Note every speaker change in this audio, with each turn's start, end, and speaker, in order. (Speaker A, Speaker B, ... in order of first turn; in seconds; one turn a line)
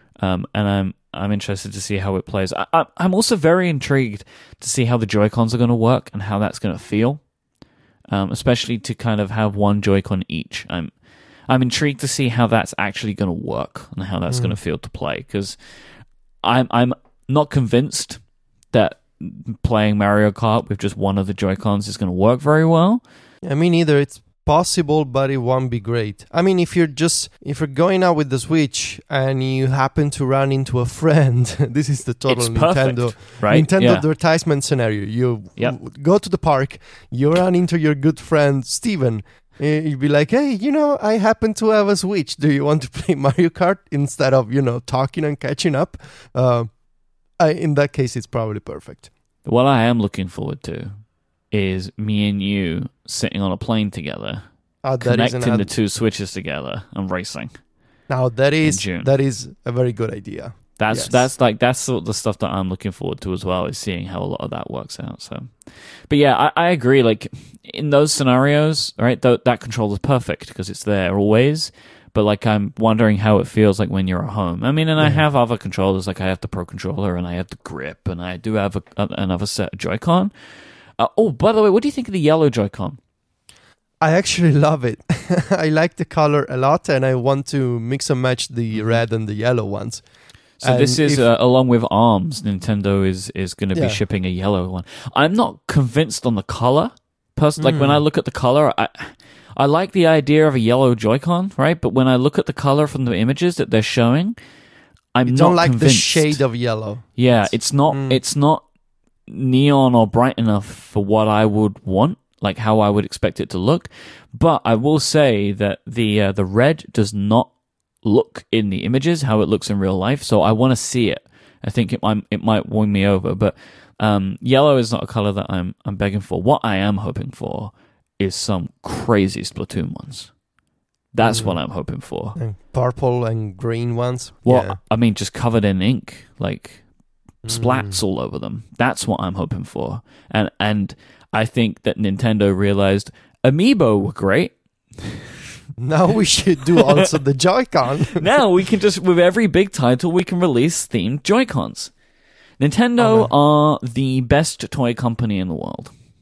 Speaker A: 0.2-7.2
Speaker A: 8.1-10.9
Speaker A: 11.5-15.6
Speaker B: 14.3-14.6
Speaker A: 16.4-23.0
Speaker B: 23.4-46.7
Speaker A: 32.3-34.0
Speaker B: 47.4-49.1
Speaker A: 49.5-51.0
Speaker A: 51.5-54.4
Speaker B: 54.8-55.7
Speaker A: 55.0-57.6
Speaker B: 58.1-61.3
Speaker A: 58.6-59.1
Speaker A: 60.8-80.3
Speaker B: 75.0-75.2
Speaker A: 81.0-83.0
Speaker B: 84.0-90.0
Speaker A: 88.7-89.0
Speaker A: 90.6-104.4
Speaker B: 90.6-91.2
Speaker B: 93.8-94.0
Speaker B: 97.6-98.0
Speaker A: 105.2-106.4
Speaker B: 105.3-108.2
Speaker A: 107.2-108.7
Speaker A: 109.3-117.5
Speaker A: 118.0-130.3
Speaker A: 131.1-132.4
Speaker B: 131.2-131.6
Speaker B: 132.4-134.8
Speaker A: 134.4-136.8
Speaker B: 137.4-138.0
Speaker A: 137.5-145.3
Speaker B: 145.8-148.2
Speaker A: 146.8-147.1
Speaker A: 148.1-151.9
Speaker A: 152.6-155.9
Speaker B: 153.0-153.3